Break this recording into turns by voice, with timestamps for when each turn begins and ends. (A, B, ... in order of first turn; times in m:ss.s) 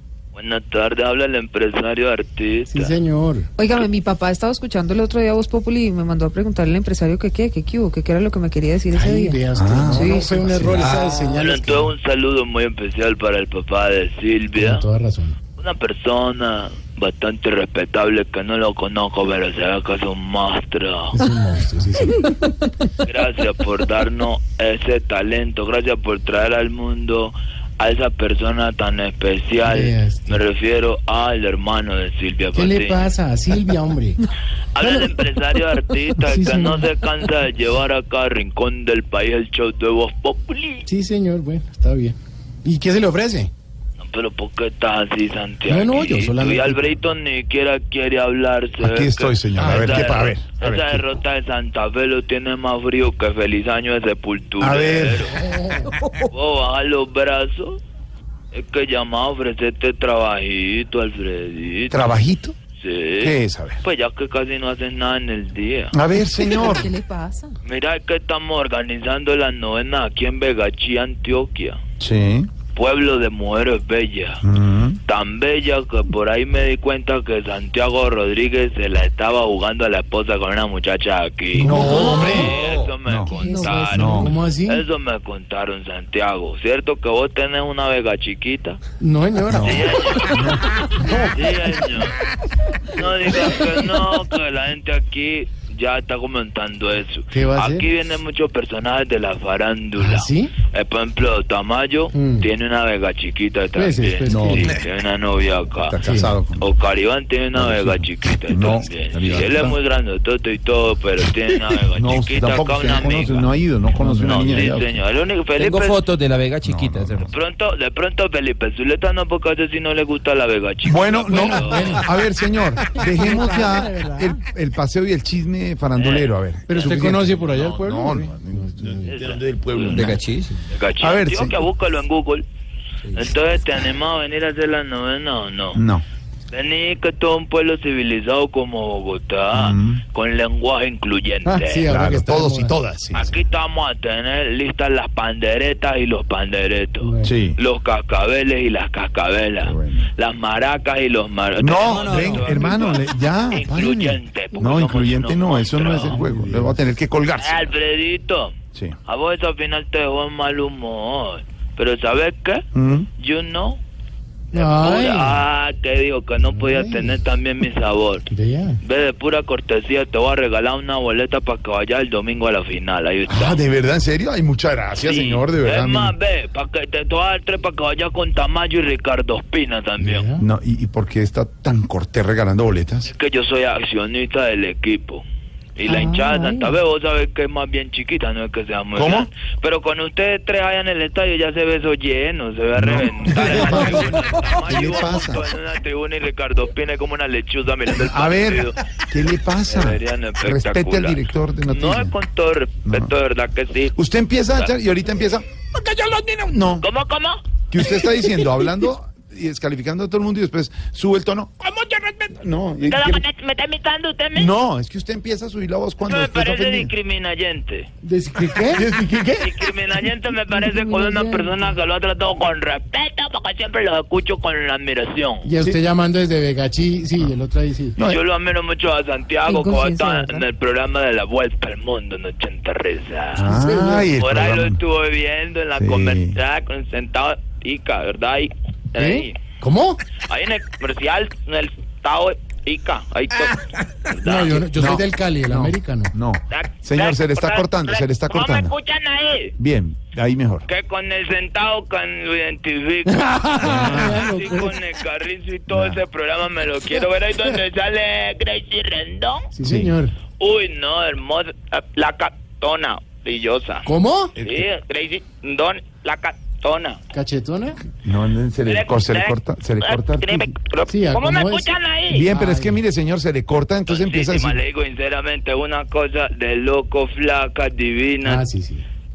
0:00.3-0:03.0 A
0:02.7-0:03.5 B
0:03.6-0:10.8 C
0:08.9-0:11.9 B
0:09.5-0:10.9 D
0:11.3-0:14.8 A
0:14.6-0:15.4 B
0:15.6-0:21.2 A
0:21.1-0:22.3 B
0:23.0-0:33.1 A
0:29.6-0:30.4 B
0:32.5-0:34.2 B
0:34.7-0:40.8 A
0:34.8-0:35.2 B
0:36.2-0:36.9 B
0:40.9-0:43.5 B
0:44.0-0:55.4 A
0:45.7-0:46.8 B
0:48.8-0:51.0 D
0:49.6-0:50.2 B
0:54.6-0:55.4 D
0:55.4-0:55.8 B
0:56.3-0:57.8 A
0:58.5-1:02.2 A
1:01.9-1:02.5 D
1:02.8-1:05.9 A
1:03.2-1:03.8 D
1:05.9-1:06.9 D
1:06.4-1:07.5 C
1:07.6-1:11.8 A
1:12.0-1:12.5 D
1:12.7-1:14.4 A
1:14.4-1:15.0 D
1:15.1-1:28.8 A
1:21.5-1:23.3 D
1:21.7-1:22.5 B
1:22.0-1:22.4 C
1:23.3-1:24.2 C
1:23.4-1:24.8 B
1:23.9-1:24.4 D
1:29.0-1:29.8 B
1:29.5-1:30.7 D
1:29.5-1:32.2 A
1:31.0-1:31.4 B
1:33.0-1:46.0 A
1:37.3-1:37.9 B
1:40.0-1:40.6 B
1:42.1-1:42.5 B
1:43.8-1:44.8 B
1:44.3-1:44.8 D
1:45.8-1:46.6 D
1:46.0-1:46.4 B
1:46.6-1:56.0 A
1:47.5-1:49.8 D
1:51.9-1:55.0 D
1:55.6-1:57.3 E
1:56.6-1:57.3 D
1:57.3-2:02.0 A
2:00.8-2:10.2 D
2:01.3-2:02.1 B
2:03.0-2:04.3 B
2:06.0-2:07.0 A
2:06.7-2:09.1 B
2:09.1-2:10.2 A
2:09.9-2:10.6 E
2:10.7-2:12.4 A
2:11.0-2:11.6 D
2:13.1-2:15.8 A
2:15.7-2:16.0 D
2:16.5-2:21.9 A
2:19.5-2:20.0 D
2:21.4-2:22.8 B
2:21.9-2:23.3 D
2:23.1-2:36.2 A
2:27.0-2:27.3 B
2:27.2-2:27.6 D
2:29.6-2:30.1 D
2:31.6-2:37.7 D
2:32.0-2:32.4 E
2:36.0-2:36.8 B
2:37.4-2:38.5 A
2:39.0-2:42.7 A
2:42.7-2:43.1 D
2:43.2-2:43.8 A
2:44.5-2:45.4 B
2:44.5-2:48.2 A
2:46.4-2:47.2 B
2:48.3-2:48.8 B
2:48.8-2:53.6 A
2:53.2-2:56.1 D
2:55.0-3:00.3 A
3:00.0-3:00.4 B
3:00.4-3:03.1 D
3:03.0-3:05.2 A
3:05.8-3:18.8 A
3:05.8-3:06.8 C
3:08.9-3:09.3 D
3:12.8-3:15.4 D
3:17.9-3:22.1 D
3:19.7-3:23.9 A
3:22.8-3:23.1 D
3:24.0-3:26.8 D
3:26.8-3:27.4 A
3:27.7-3:33.2 D
3:32.9-3:34.5 A
3:34.3-3:36.9 D
3:36.0-3:37.9 A
3:38.0-3:38.9 B
3:38.6-3:39.7 D
3:39.4-3:45.5 A
3:40.5-3:41.7 C
3:45.4-3:48.0 B
3:48.0-3:48.2 D
3:48.0-3:59.4 A
3:49.5-3:50.4 C
3:53.3-3:54.8 D
3:53.5-3:54.1 C
3:55.8-3:56.4 D
3:59.0-4:00.0 B
4:00.2-4:04.7 A
4:04.2-4:06.1 B
4:04.7-4:08.7 D
4:06.5-4:09.5 A
4:09.6-4:10.7 D
4:10.7-4:19.5 A
4:13.3-4:14.7 B
4:13.6-4:14.2 D
4:15.7-4:16.0 D
4:19.5-4:20.2 B
4:19.6-4:20.0 D
4:20.4-4:27.0 A
4:23.8-4:24.3 B
4:24.4-4:24.7 D
4:27.1-4:27.8 B
4:28.0-4:30.5 D
4:28.6-4:32.3 A
4:30.9-4:31.7 B
4:32.1-4:34.6 D
4:32.3-4:32.8 B
4:33.9-4:38.4 A
4:38.2-4:38.8 B